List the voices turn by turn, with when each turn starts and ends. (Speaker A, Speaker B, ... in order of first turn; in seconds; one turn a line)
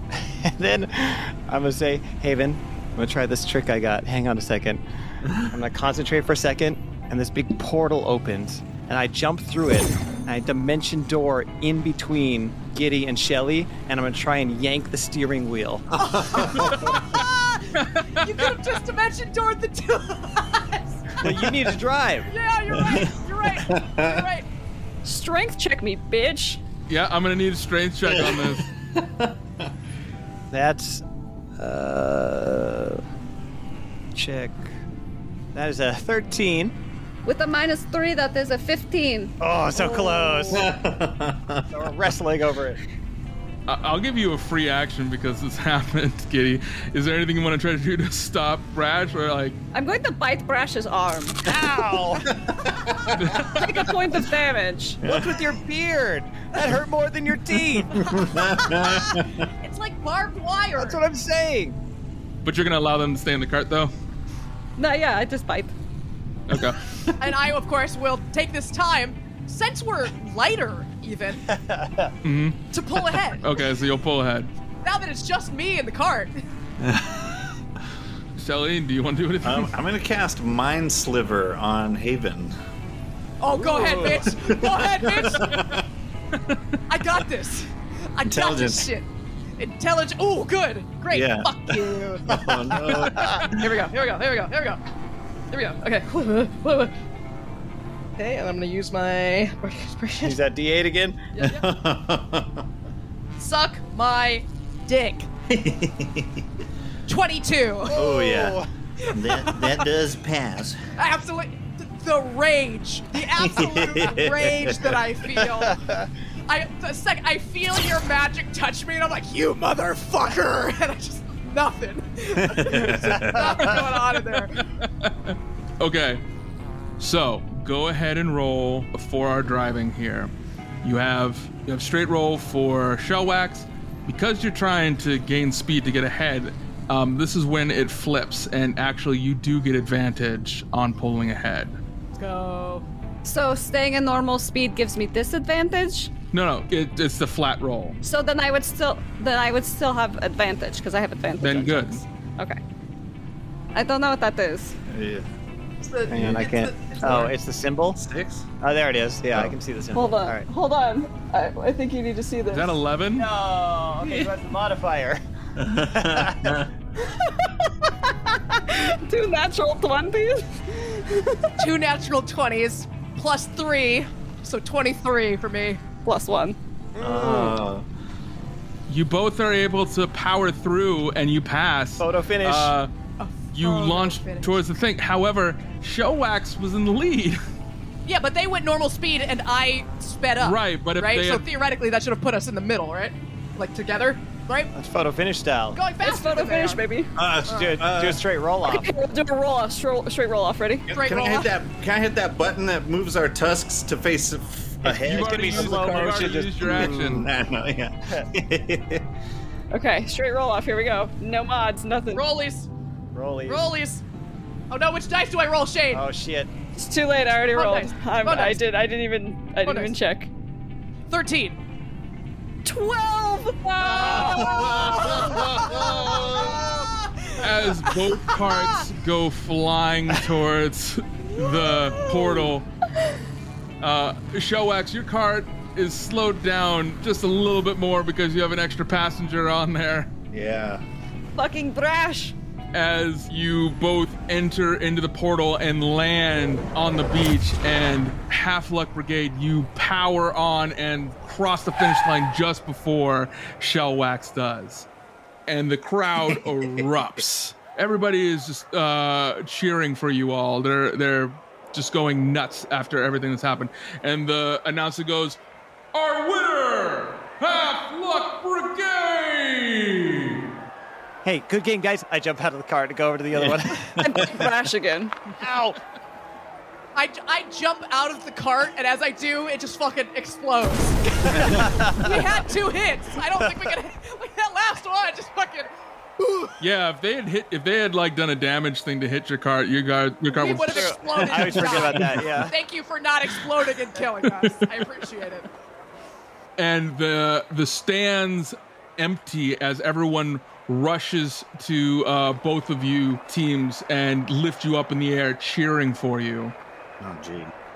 Speaker A: 0.1-15.9
Speaker B: 16.0-21.2
Speaker C: 16.2-17.0
Speaker D: 16.6-17.2
Speaker D: 17.7-18.5
Speaker A: 21.2-22.3
Speaker B: 22.3-24.4
Speaker C: 22.7-24.2
Speaker E: 25.0-26.6
Speaker D: 26.9-28.6
Speaker C: 28.1-29.7
Speaker A: 30.5-31.0
Speaker A: 31.6-33.0
Speaker A: 34.1-34.7
Speaker A: 35.5-36.7
Speaker E: 37.2-40.6
Speaker A: 39.4-40.7
Speaker C: 40.5-41.7
Speaker A: 41.7-42.8
Speaker D: 43.7-49.6
Speaker E: 49.7-51.4
Speaker A: 51.4-52.4
Speaker C: 52.4-53.1
Speaker D: 53.1-53.7
Speaker E: 53.5-55.0
Speaker C: 55.0-55.5
Speaker A: 55.0-58.0
Speaker B: 57.9-61.0
Speaker C: 58.0-59.4
Speaker A: 60.8-61.8
Speaker D: 62.4-63.9
Speaker E: 64.8-65.7
Speaker D: 66.5-66.8
Speaker B: 67.2-71.5
Speaker A: 71.5-72.1
Speaker D: 72.2-72.6
Speaker B: 72.7-73.6
Speaker D: 73.4-74.5
Speaker B: 74.8-76.3
Speaker C: 76.8-77.2
Speaker D: 78.4-79.7
Speaker C: 79.4-82.5
Speaker B: 83.4-85.7
Speaker A: 83.5-84.3
Speaker C: 84.1-85.9
Speaker B: 86.9-89.1
Speaker C: 88.2-88.9
Speaker B: 89.6-92.4
Speaker C: 91.1-93.7
Speaker A: 92.9-93.5
Speaker B: 93.2-94.8
Speaker B: 95.5-96.9
Speaker B: 98.2-100.4
Speaker A: 100.2-101.2
Speaker B: 101.3-101.7
Speaker C: 101.4-102.7
Speaker B: 103.4-105.3
Speaker C: 105.5-106.5
Speaker B: 107.1-108.2
Speaker C: 107.9-110.8
Speaker A: 107.9-108.7
Speaker B: 109.0-109.8
Speaker B: 111.0-115.8
Speaker C: 113.4-115.0
Speaker A: 115.6-116.1
Speaker B: 116.5-124.6
Speaker C: 122.4-123.7
Speaker D: 123.6-126.2
Speaker D: 127.0-130.3
Speaker D: 130.8-141.8
Speaker B: 142.2-142.9
Speaker E: 143.2-146.1
Speaker D: 146.3-148.0
Speaker E: 148.0-152.6
Speaker D: 151.4-152.0
Speaker E: 153.7-154.7
Speaker C: 154.9-155.3
Speaker B: 155.8-157.3
Speaker A: 156.1-158.0
Speaker C: 156.1-156.5
Speaker C: 157.0-157.3
Speaker C: 157.9-158.5
Speaker A: 158.6-160.4
Speaker C: 159.3-159.6
Speaker E: 159.9-162.8
Speaker D: 162.5-163.3
Speaker A: 163.2-165.2
Speaker C: 165.6-166.7
Speaker A: 165.8-166.6
Speaker E: 168.7-171.6
Speaker B: 171.6-175.8
Speaker E: 176.0-176.6
Speaker A: 176.9-177.6
Speaker C: 177.0-177.9
Speaker D: 178.9-182.9
Speaker A: 182.0-182.7
Speaker B: 183.2-184.6
Speaker D: 183.5-187.4
Speaker B: 188.1-194.7
Speaker D: 190.4-191.4
Speaker A: 194.7-195.8
Speaker B: 195.7-196.8
Speaker E: 196.0-197.1
Speaker C: 197.2-198.2
Speaker A: 197.5-198.9
Speaker B: 197.5-197.8
Speaker E: 198.6-200.9
Speaker C: 200.9-209.1
Speaker B: 200.9-201.5
Speaker A: 204.8-207.3
Speaker D: 204.9-207.3
Speaker E: 209.7-212.2
Speaker B: 212.1-212.7
Speaker A: 213.1-213.7
Speaker B: 213.4-214.0
Speaker B: 214.7-216.1
Speaker A: 215.9-216.5
Speaker E: 216.8-220.3
Speaker B: 217.6-218.6
Speaker B: 219.6-219.9
Speaker B: 221.1-221.6
Speaker E: 222.6-225.4
Speaker C: 223.8-226.9
Speaker B: 223.9-228.7
Speaker D: 227.4-232.7
Speaker B: 231.3-232.4
Speaker D: 233.8-240.1
Speaker C: 240.3-240.8
Speaker E: 241.4-242.4
Speaker D: 242.7-254.9
Speaker D: 255.5-265.4
Speaker D: 265.9-270.4
Speaker A: 271.2-274.2
Speaker E: 274.0-275.1
Speaker C: 274.0-274.4
Speaker A: 275.4-275.8
Speaker B: 276.9-286.6
Speaker A: 281.4-282.2
Speaker D: 286.6-292.1
Speaker B: 290.4-295.5
Speaker A: 290.6-292.6
Speaker D: 294.2-294.8
Speaker D: 296.6-306.6
Speaker C: 307.0-307.5